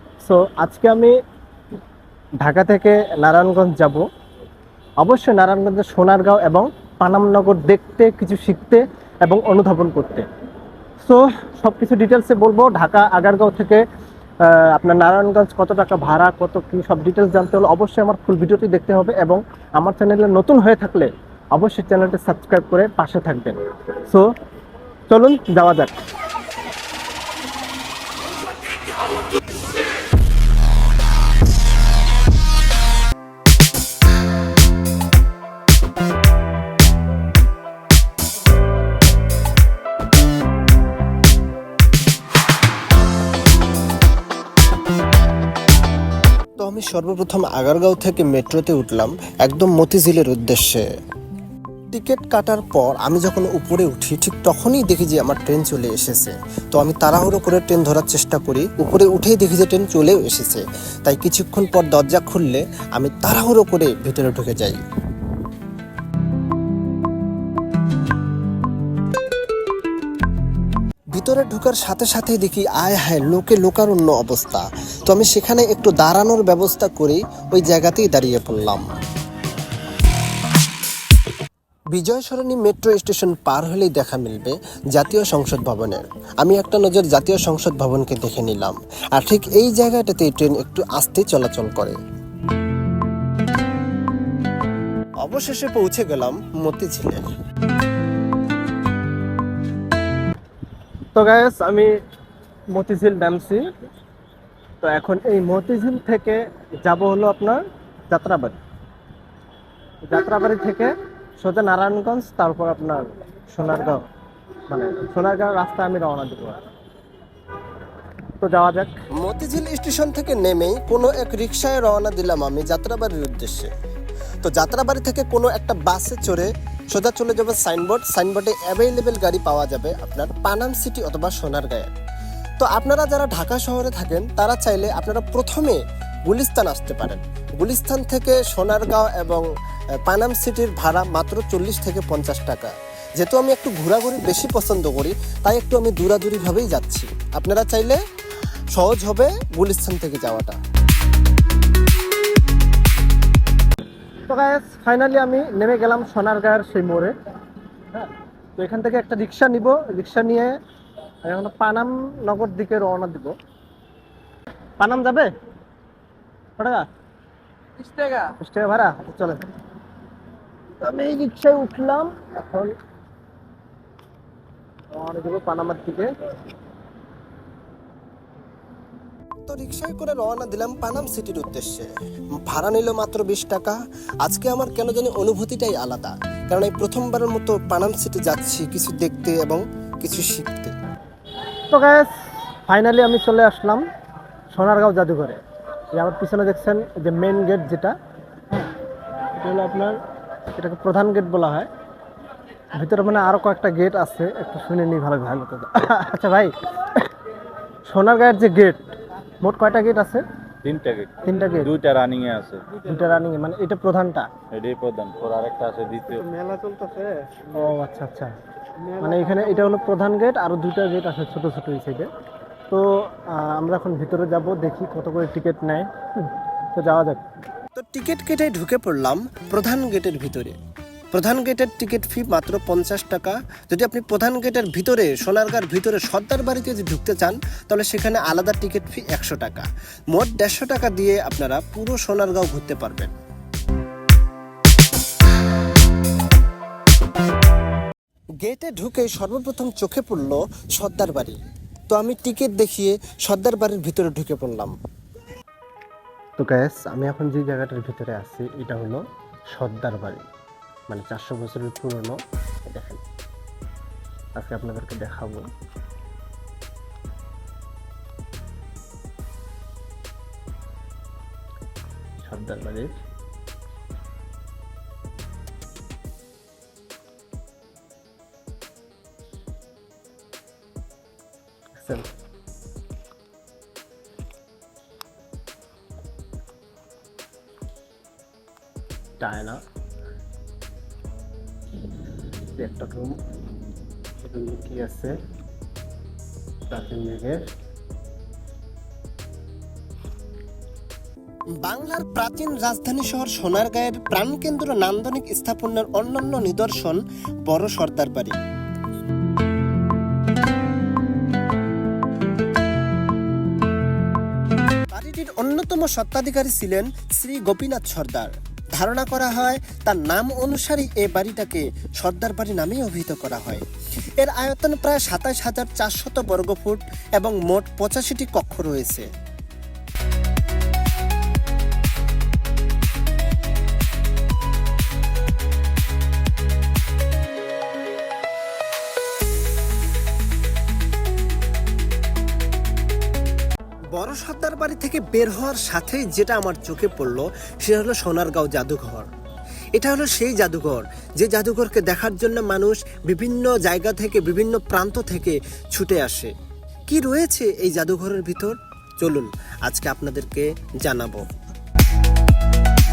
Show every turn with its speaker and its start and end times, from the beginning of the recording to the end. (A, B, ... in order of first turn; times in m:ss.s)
0:00.2-0:01.2 A
0:02.4-0:04.0 A
0:05.0-0:10.3 A
0:11.0-0:13.8 A
0:14.4-0:24.3 A
0:25.1-0:26.0 A
0:46.6-0:50.9 B
0:51.9-1:04.8 B
1:11.1-1:18.9 B
1:21.9-1:32.0 B
1:35.2-1:37.3 B
1:41.2-1:41.9 A
1:42.7-1:43.6 A
1:44.8-1:48.6 A
1:50.1-1:54.0 A
1:54.7-1:56.6 A
1:58.4-1:59.0 A
1:59.2-2:03.7 B
2:04.4-2:11.9 B
2:12.6-2:19.5 B
2:20.0-2:28.0 B
2:28.7-2:30.6 B
2:34.3-2:37.1 A
2:37.9-2:40.6 A
2:41.3-2:43.3 A
2:44.8-2:45.3 A
2:46.6-2:46.9 A
2:47.8-2:49.5 A
2:50.8-2:52.7 A
2:54.9-2:56.1 A
2:59.5-3:10.7 B
3:11.7-3:12.1 A
3:12.7-3:13.8 A
3:14.5-3:15.4 A
3:15.9-3:18.0 A
3:19.4-3:20.0 A
3:20.5-3:21.7 A
3:22.8-3:27.1 A
3:27.9-3:28.8 A
3:29.4-3:30.2 A
3:30.6-3:32.8 C
3:31.2-3:31.7 A
3:32.8-3:34.3 A
3:34.5-3:36.3 C
3:36.4-3:38.3 A
3:39.0-3:42.1 A
3:42.7-3:47.2 A
3:47.8-3:50.6 B
3:51.1-4:03.2 B
4:08.4-4:14.8 B
4:16.4-4:19.0 A
4:19.6-4:20.2 A
4:20.9-4:22.2 A
4:22.7-4:23.0 A
4:24.4-4:25.4 A
4:32.2-4:33.0 A
4:41.8-4:42.1 A
4:49.2-4:49.6 A
4:52.6-4:53.2 A
4:54.2-4:55.2 A
4:56.7-4:57.5 A
5:01.6-5:08.4 B
5:14.9-5:23.6 B
5:24.2-5:29.1 B
5:43.9-5:49.1 B
5:49.8-5:56.3 B
5:56.9-6:01.3 B